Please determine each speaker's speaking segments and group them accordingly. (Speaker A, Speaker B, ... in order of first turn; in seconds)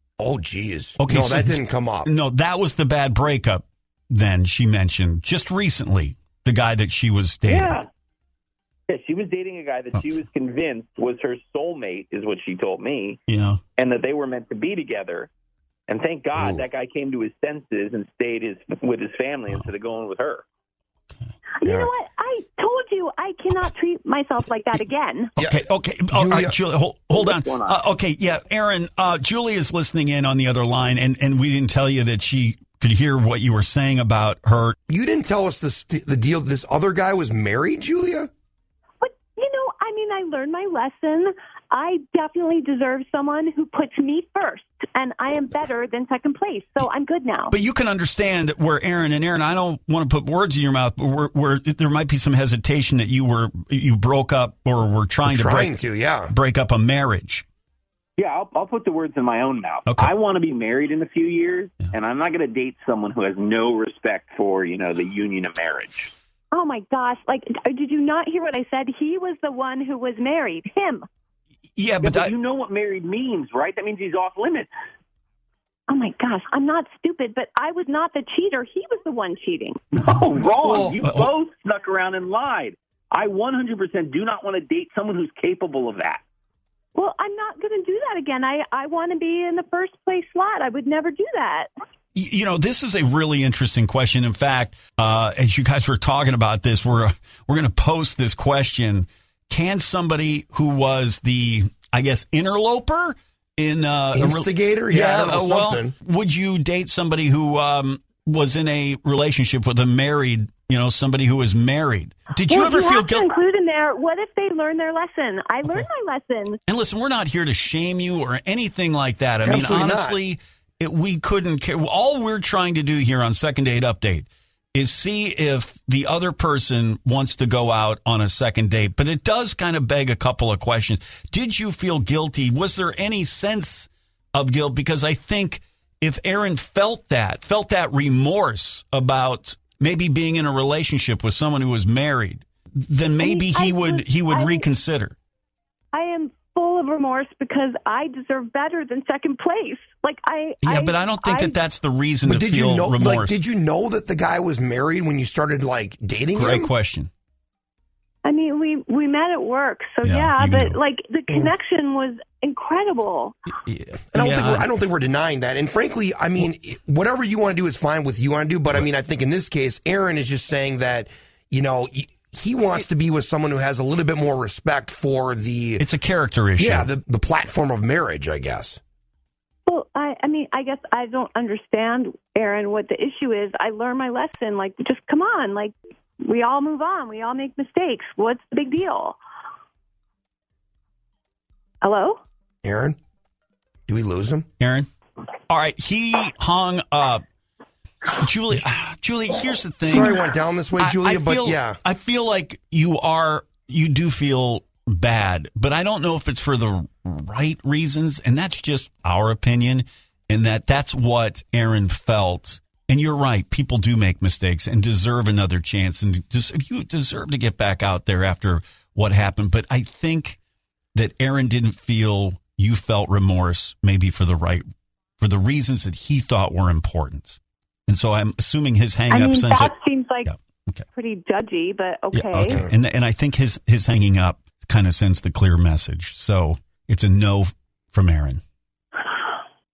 Speaker A: 0.2-2.1, 16.4-16.7, 21.6-21.9, 26.1-26.6, 34.9-38.3, 55.3-56.3, 80.6-80.9, 104.1-105.9, 119.5-120.2, 152.2-156.7, 164.1-175.8, 176.6-178.8, 192.6-193.0, 193.9-194.5, 199.9-201.8, 232.5-232.8
Speaker B: 1.0-7.8, 13.3-13.6, 25.4-34.8, 47.5-55.8, 56.3-57.5, 59.9-60.1, 71.8-72.3, 81.0-81.3, 92.2-113.3, 116.7-145.2, 150.6-153.4, 156.3-157.1, 160.0-160.8, 163.6-164.7, 175.8-176.9, 194.6-194.9, 195.5-197.2, 198.1-220.4, 220.9-224.7, 225.2-230.9, 232.1-238.4
Speaker C: 7.5-7.9, 8.9-13.2, 13.8-15.3, 15.9-20.4, 27.1-27.8, 58.2-66.1, 72.0-74.7, 79.9-86.2
Speaker D: 21.6-25.3, 39.0-47.5, 66.5-71.0, 75.9-79.8, 87.0-91.7, 112.5-116.6, 143.2-144.7, 145.9-151.6, 158.2-163.4, 179.7-189.2, 191.8-192.2, 229.1-230.3, 230.9-232.6